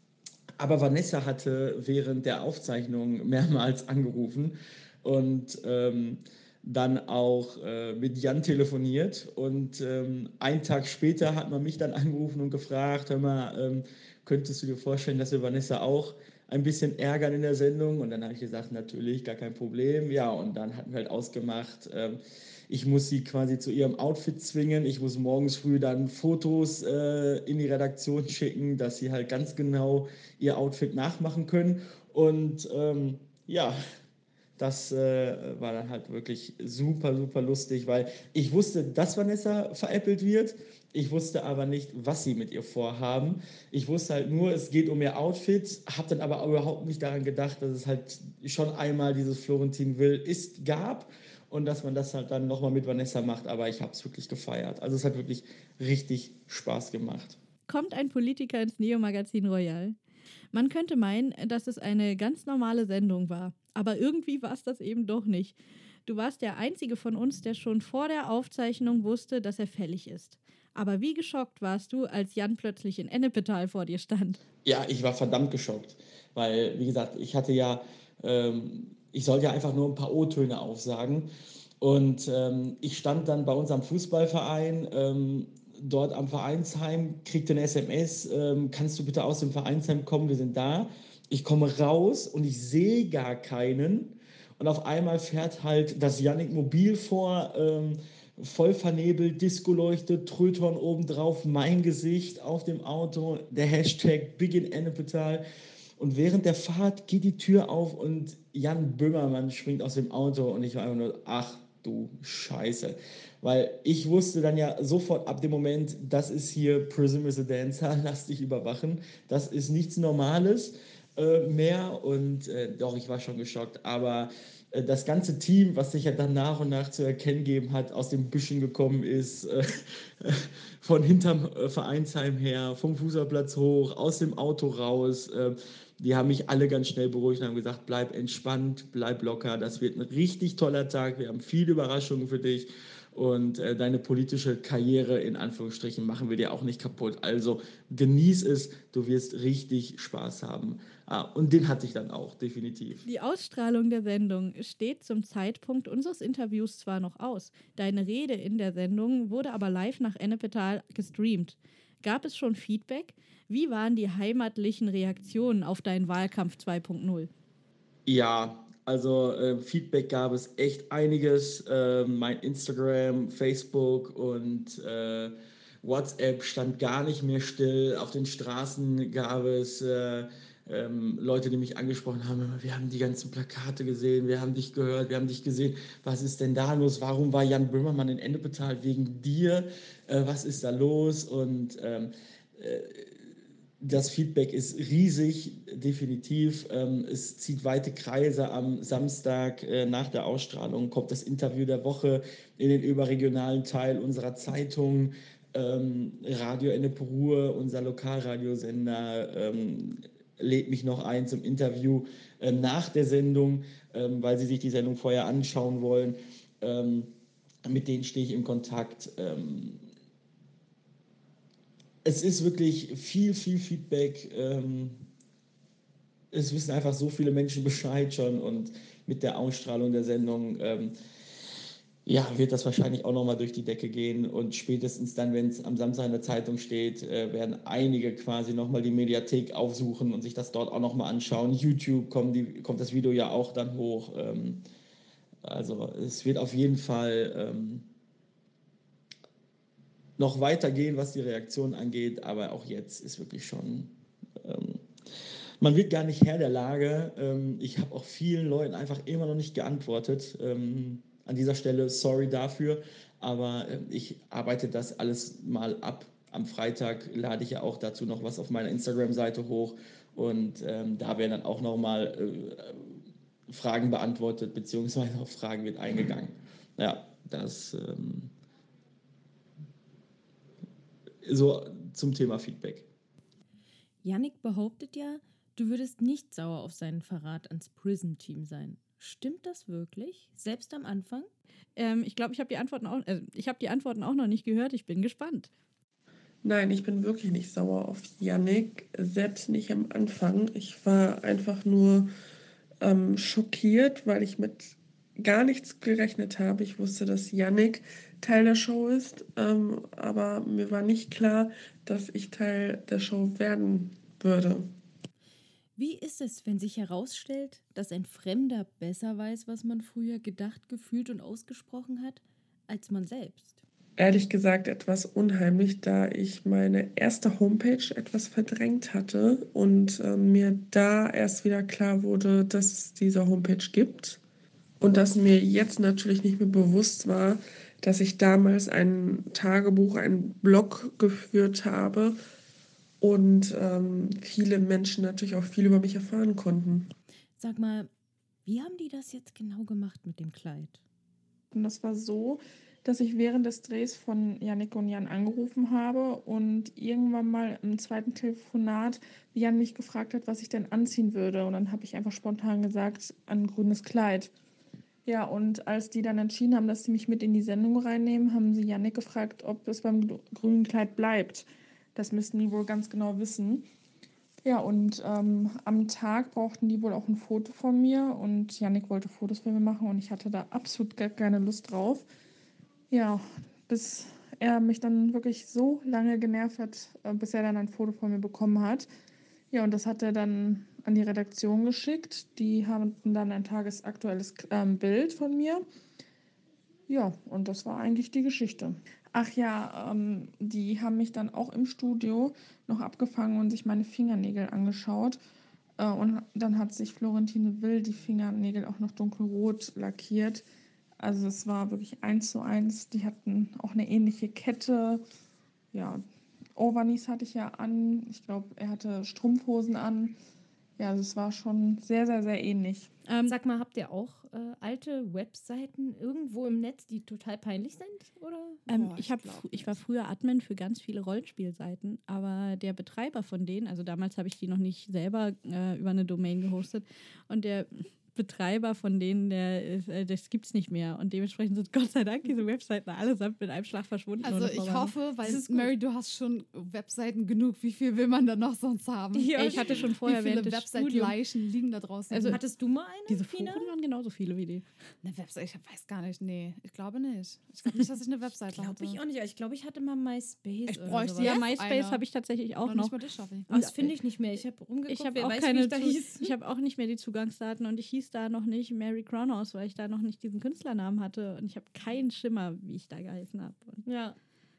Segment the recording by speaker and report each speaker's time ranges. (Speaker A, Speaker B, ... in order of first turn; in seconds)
Speaker A: 0.6-33.8, 34.6-57.4, 74.7-81.3, 81.8-105.4, 106.0-153.1, 168.1-193.2, 193.8-217.1, 217.7-219.8, 222.1-225.0, 226.3-230.9, 232.1-244.7, 245.4-247.9, 250.2-254.8, 255.6-278.3, 281.2-282.9
Speaker B: 57.7-60.0, 60.5-74.4, 153.1-167.3, 291.8-295.5, 423.1-423.3, 428.7-444.9, 449.4-451.1, 453.1-454.6, 461.2-462.9, 463.5-463.9, 464.9-473.8
Speaker C: 284.0-291.3, 315.8-323.6, 347.4-347.9, 348.4-350.8, 423.3-428.6, 445.2-445.7, 449.1-449.9, 452.1-453.7, 458.6-461.5, 463.5-466.4, 473.9-474.2
Speaker D: 296.4-302.1, 302.8-314.7, 324.0-334.2, 334.8-342.2, 343.0-346.9
Speaker E: 351.5-364.3, 365.1-373.6, 374.4-382.1, 382.9-388.9, 389.5-395.6, 396.9-405.2, 405.8-410.5, 411.0-415.0, 415.7-416.1, 416.6-420.2, 420.8-422.9
Speaker F: 428.7-429.8, 444.2-452.4, 455.0-459.0, 460.7-462.0, 462.6-463.5